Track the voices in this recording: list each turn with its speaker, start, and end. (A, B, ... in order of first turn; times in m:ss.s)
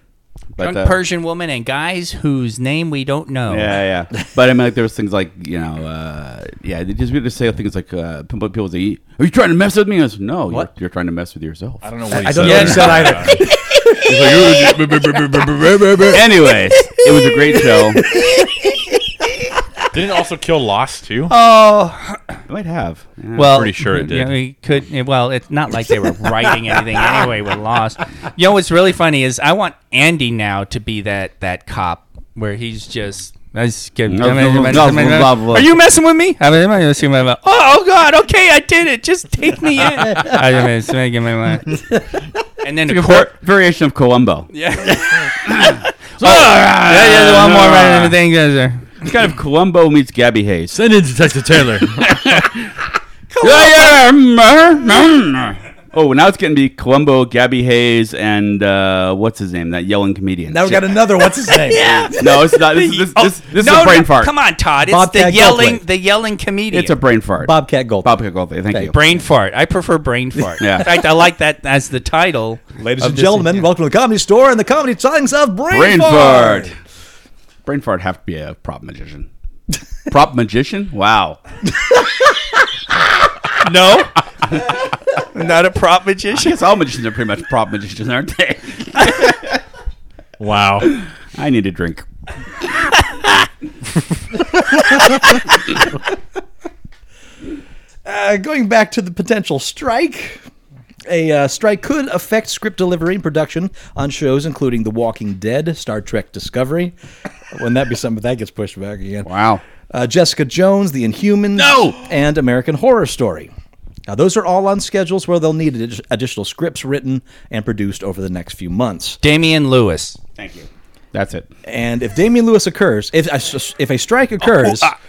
0:00.6-0:01.0 A
0:00.6-0:03.8 B
0:03.5-0:13.2 A
0:11.8-0:13.4 C
0:12.1-0:14.7 D
0:14.1-0:16.2 C
0:14.2-0:14.8 A
0:16.1-0:18.1 A
0:17.7-0:18.9 D
0:19.9-0:21.3 C
0:21.3-0:22.4 B
0:22.5-0:23.6 A
0:23.4-0:41.8 B
0:23.4-0:24.3 C
0:34.1-0:35.7 A
0:42.6-0:43.3 B
0:42.9-0:44.5 A
0:44.5-0:49.0 B
0:45.5-0:48.2 A
0:49.0-0:50.8 A
0:50.7-0:52.3 C
0:52.0-0:52.7 A
0:53.4-0:53.9 B
0:53.4-1:00.9 A
1:00.5-1:02.2 D
1:01.7-1:07.0 B
1:01.8-1:04.3 A
1:04.9-1:05.8 D
1:06.7-1:09.0 A
1:07.4-1:08.1 D
1:08.7-1:09.0 D
1:08.9-1:13.7 B
1:10.6-1:10.9 A
1:12.8-1:16.8 D
1:15.7-1:16.8 A
1:17.7-1:19.3 A
1:20.1-1:21.4 A
1:23.6-1:24.2 B
1:25.3-1:26.5 B
1:26.3-1:29.6 A
1:30.4-1:30.9 C
1:30.9-1:32.1 A
1:38.0-1:40.4 D
1:41.1-1:47.0 D
1:47.5-1:49.3 D
1:49.2-1:49.6 A
1:49.9-1:53.5 D
1:51.6-1:52.0 A
1:54.1-1:59.2 D
1:59.2-2:00.2 B
2:00.4-2:01.5 A
2:01.6-2:04.9 D